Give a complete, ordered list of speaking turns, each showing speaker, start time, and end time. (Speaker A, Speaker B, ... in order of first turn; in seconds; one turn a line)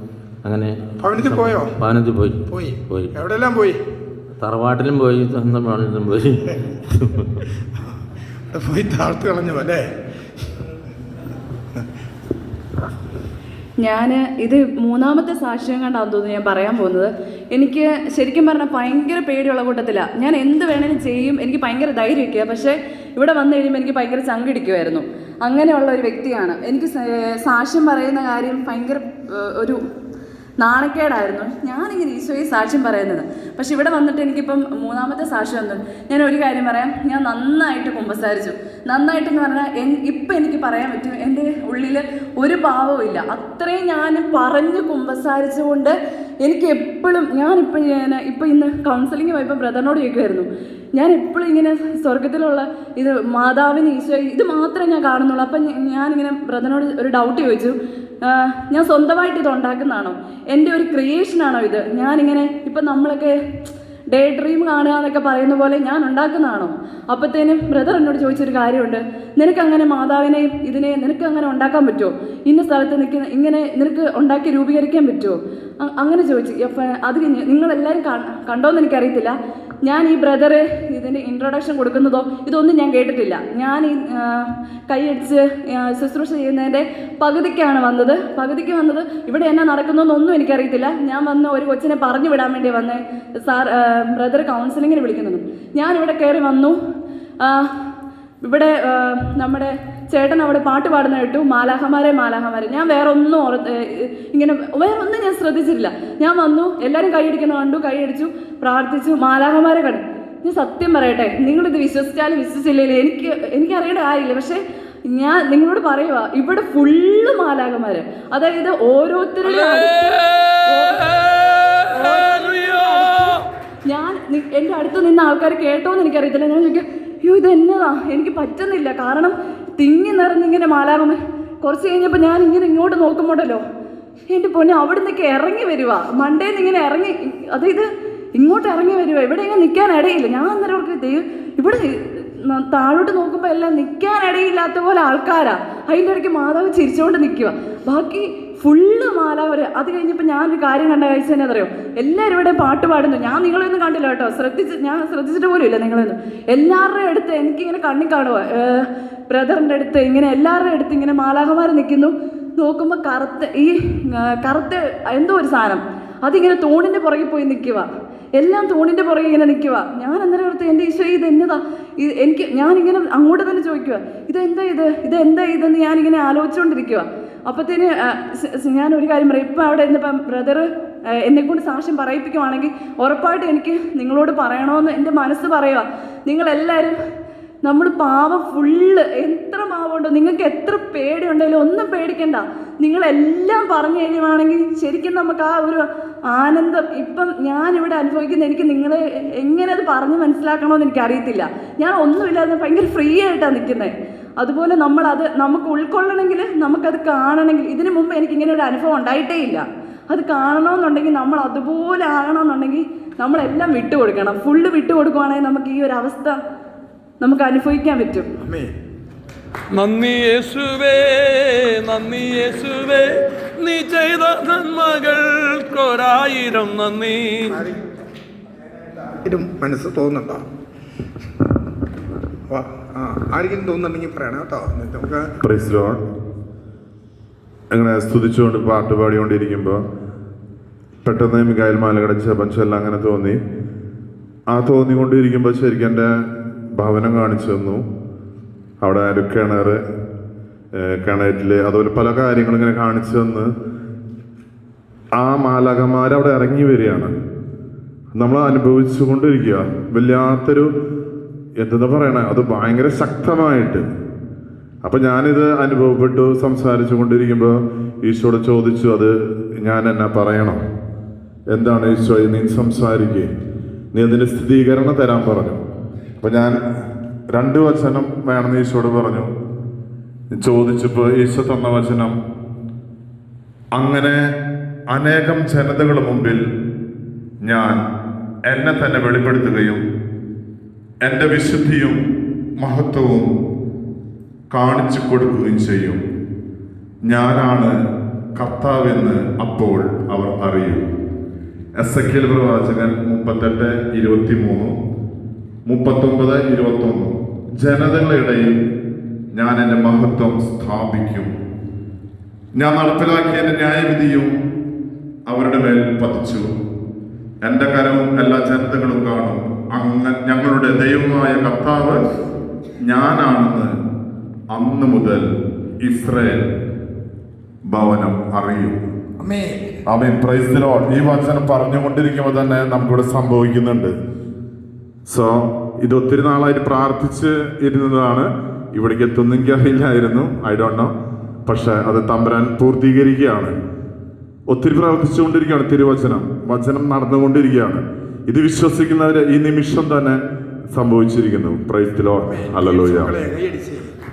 Speaker A: 0.4-3.1
Speaker B: 1.0-1.8
Speaker B: 2.5-3.8
Speaker A: 4.4-7.1
Speaker B: 8.5-9.9
Speaker C: 13.8-29.8
Speaker C: 30.6-96.8
Speaker C: 97.4-97.8
Speaker C: 98.4-121.2
Speaker D: 119.5-123.4
Speaker C: 121.8-133.6
Speaker C: 134.3-187.0
Speaker C: 187.6-216.4
Speaker C: 217.2-218.3
Speaker B: 218.4-218.7
Speaker D: 219.7-227.6
Speaker B: 227.5-227.8
Speaker B: 229.2-230.4
Speaker B: 232.5-235.3
Speaker E: 235.4-236.0
Speaker E: 237.7-239.8
Speaker E: 241.0-243.4
Speaker E: 244.5-246.1
Speaker E: 246.7-247.8
Speaker E: 248.8-249.8
Speaker E: 250.7-253.5
Speaker E: 255.2-257.1
Speaker E: 258.1-260.7
Speaker E: 261.6-263.9
Speaker E: 264.8-270.6
Speaker E: 271.5-273.3
Speaker E: 273.9-275.6
Speaker E: 276.2-276.6
Speaker E: 277.3-279.3
Speaker E: 280.3-282.1
Speaker E: 283.8-284.2
Speaker E: 284.9-286.4
Speaker E: 287.4-287.8
Speaker E: 288.5-289.8
Speaker E: 291.0-292.0
Speaker E: 292.6-293.3
Speaker E: 294.5-296.0
Speaker E: 297.1-297.7
Speaker E: 298.4-300.8
Speaker E: 301.8-304.8
Speaker E: 305.6-308.6
Speaker E: 309.3-311.3
Speaker E: 312.6-314.3
Speaker E: 315.3-316.5
Speaker E: 317.4-322.1
Speaker E: 322.8-323.7
Speaker E: 324.5-325.3
Speaker E: 325.8-326.5
Speaker E: 327.7-328.8
Speaker B: 329.2-329.8
Speaker E: 329.9-333.9
Speaker E: 335.1-340.9
Speaker E: 341.5-343.5
Speaker E: 344.5-350.2
Speaker E: 350.7-353.2
Speaker B: 352.2-353.9